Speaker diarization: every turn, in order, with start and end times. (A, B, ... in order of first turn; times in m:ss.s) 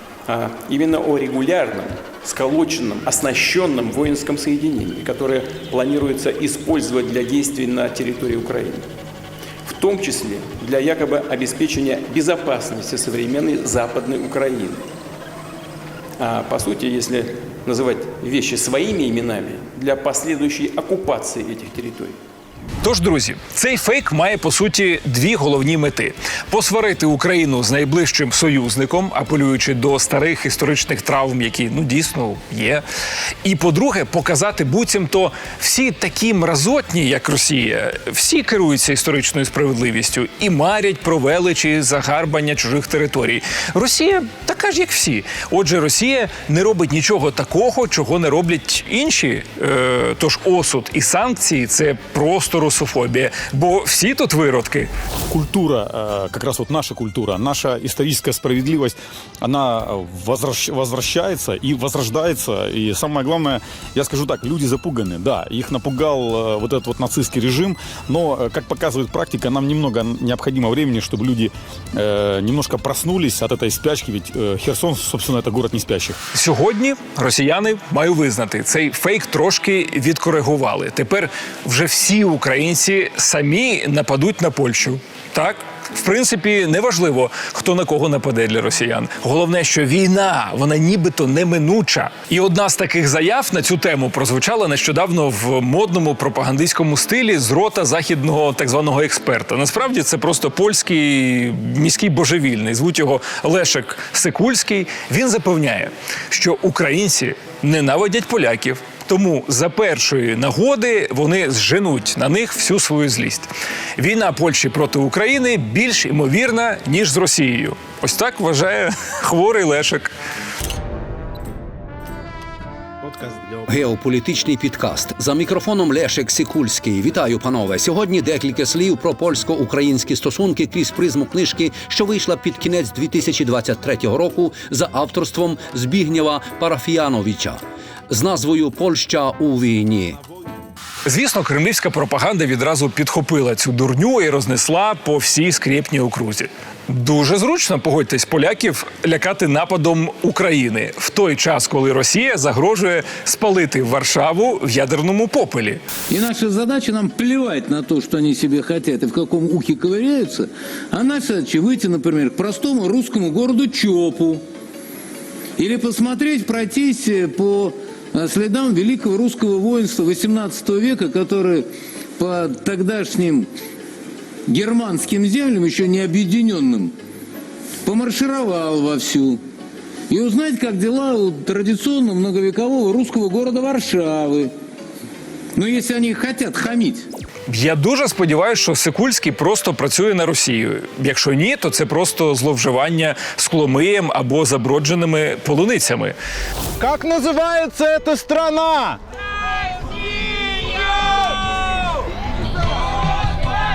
0:00.3-0:08.8 A
0:09.7-0:14.8 A
0:16.2-0:22.2 A
0:22.8-0:32.8 B
0:33.4-0:54.9 B
0:55.3-1:16.2 C
1:16.3-2:00.1 B
2:03.7-2:20.2 D
2:21.1-2:35.8 B
2:36.1-2:44.4 E
2:45.6-2:51.7 E
2:52.2-2:53.5 E
2:54.5-2:56.9 E
2:57.8-2:59.4 E
3:00.1-3:04.5 E
3:05.6-3:07.1 E
3:07.5-3:16.2 B
3:16.8-3:19.0 F